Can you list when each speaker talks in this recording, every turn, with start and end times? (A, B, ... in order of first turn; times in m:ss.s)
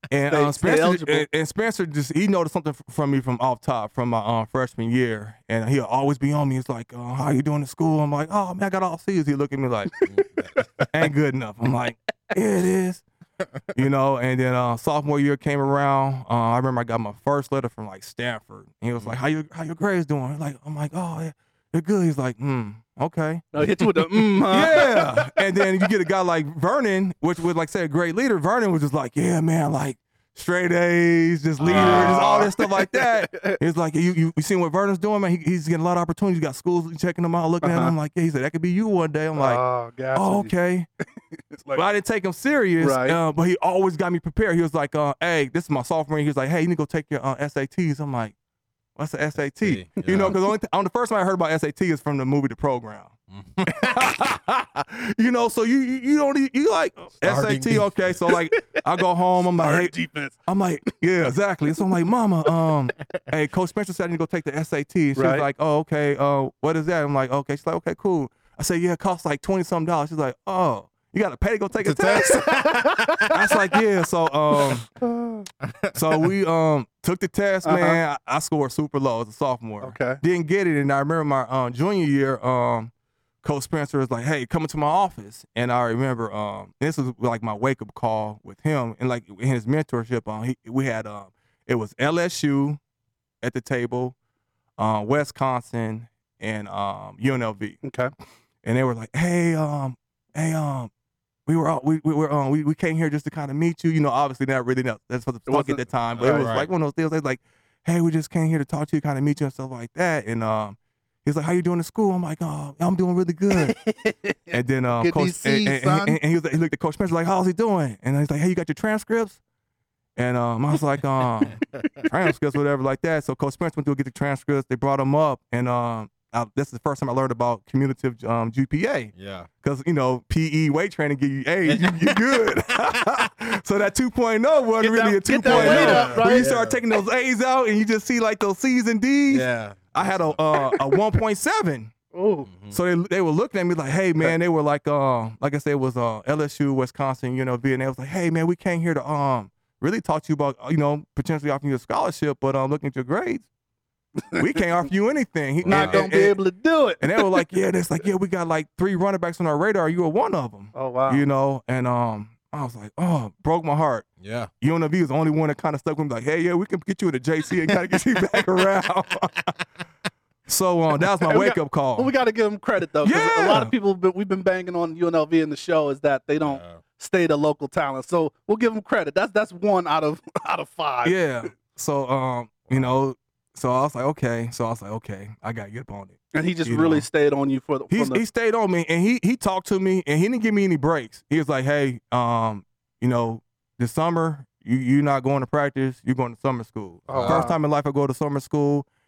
0:00.1-0:09.9 A
0:00.3-0:01.2 B
0:10.1-0:10.8 C
0:10.6-0:10.8 B
0:10.9-0:13.0 A
0:13.7-0:39.6 A
0:23.5-0:25.6 B
0:31.6-0:32.3 C
0:31.7-0:33.6 B
0:37.6-0:37.9 B
0:39.4-0:40.5 B
0:40.1-0:40.9 A
0:41.5-0:41.8 B
0:41.7-0:48.3 A
0:42.8-0:43.2 B
0:49.0-0:53.1 A
0:49.6-0:50.4 C
0:50.0-0:50.4 B
0:53.3-0:54.1 C
0:53.7-1:12.7 A
0:57.2-0:58.2 C
0:59.4-1:00.4 B
1:05.2-1:05.4 B
1:11.8-1:13.4 C
1:12.5-1:13.0 B
1:13.3-1:14.9 A
1:15.0-1:15.5 B
1:15.6-1:16.2 C
1:15.9-1:22.9 A
1:17.6-1:18.0 B
1:19.8-1:20.2 B
1:23.4-1:32.8 A
1:33.4-1:34.1 A
1:34.8-1:37.8 A
1:37.8-1:38.1 B
1:38.6-1:40.9 A
1:41.5-1:53.8 A
1:45.5-1:46.6 B
1:46.2-1:46.7 C
1:53.6-1:56.2 B
1:54.5-1:59.4 A
2:00.2-2:21.9 A
2:09.1-2:09.5 C
2:11.7-2:12.0 C
2:12.9-2:13.2 C
2:14.8-2:16.5 B
2:15.5-2:16.8 C
2:19.3-2:20.4 C
2:22.1-2:22.5 B
2:22.5-2:22.8 C
2:22.7-2:33.5 A
2:34.4-2:36.4 A
2:35.6-2:36.1 C
2:35.7-2:37.4 B
2:37.0-2:44.1 A
2:40.7-2:41.2 B
2:44.2-2:44.5 C
2:44.6-2:49.6 A
2:50.5-2:52.1 A
2:51.2-3:01.2 B
2:53.0-2:53.7 A
2:56.4-2:56.8 C
3:01.0-3:07.1 A
3:06.3-3:08.2 B
3:07.9-3:18.9 A
3:17.1-3:17.6 B
3:17.1-3:17.5 C